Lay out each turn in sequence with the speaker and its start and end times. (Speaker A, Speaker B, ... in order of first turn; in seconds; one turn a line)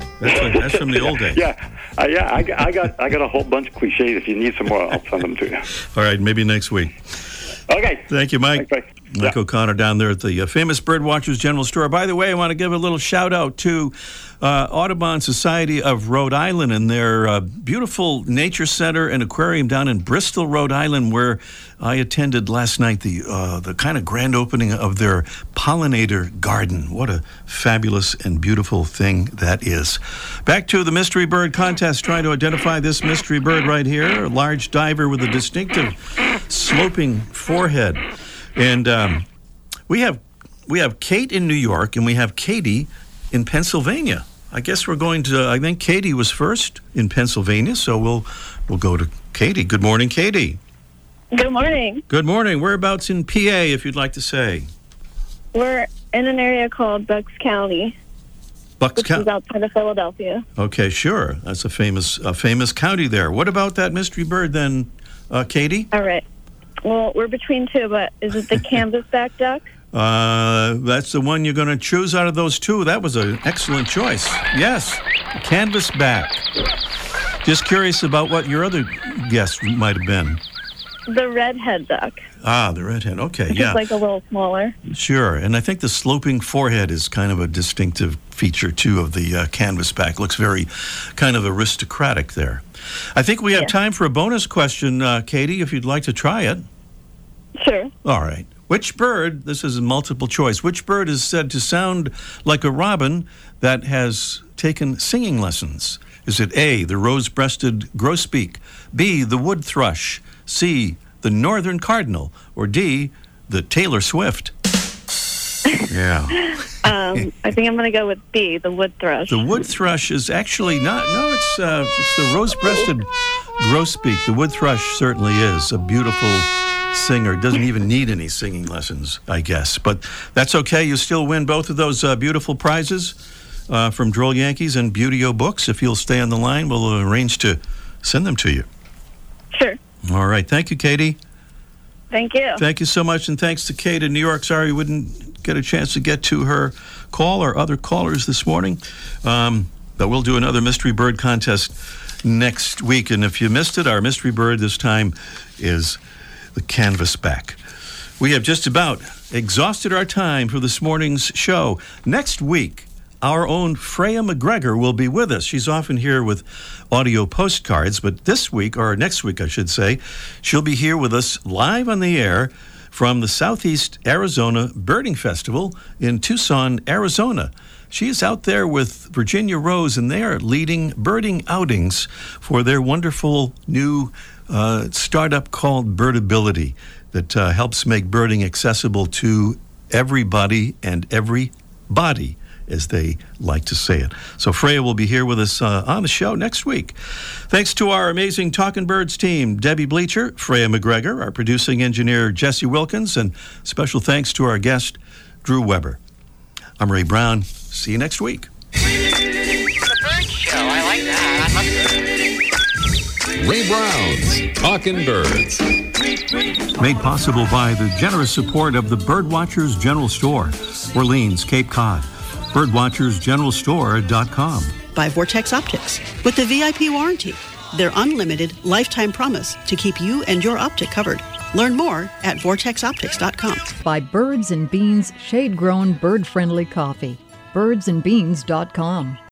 Speaker A: 0.2-1.4
Speaker B: 0.2-5.7
Speaker A: 5.8-7.0
Speaker B: 7.7-9.3
Speaker A: 8.1-38.0
Speaker A: 38.6-39.2
Speaker A: 39.9-50.6
Speaker C: 51.3-52.0
Speaker A: 52.1-54.7
Speaker C: 55.5-58.0
Speaker A: 58.8-59.3
Speaker C: 59.0-60.4
Speaker A: 60.6-65.9
Speaker C: 65.9-66.2
Speaker C: 66.9-69.7
Speaker A: 69.9-76.4
Speaker A: 77.4-80.4
Speaker C: 81.1-82.2
Speaker A: 82.4-83.9
Speaker C: 83.5-84.8
Speaker A: 84.9-92.6
Speaker A: 93.2-96.7
Speaker C: 97.6-97.9
Speaker A: 98.0-114.5
Speaker A: 115.9-117.3
Speaker C: 116.8-119.5
Speaker A: 119.3-133.2
Speaker A: 133.7-138.7
Speaker C: 139.5-139.8
Speaker A: 140.1-141.2
Speaker C: 142.1-142.6
Speaker A: 142.6-156.0
Speaker A: 156.6-157.6
Speaker A: 158.2-197.0
Speaker A: 197.5-206.0
Speaker A: 206.8-208.5
Speaker D: 209.8-212.2
Speaker E: 213.4-215.7
Speaker A: 216.8-224.8
Speaker F: 224.9-233.7
Speaker G: 233.8-239.2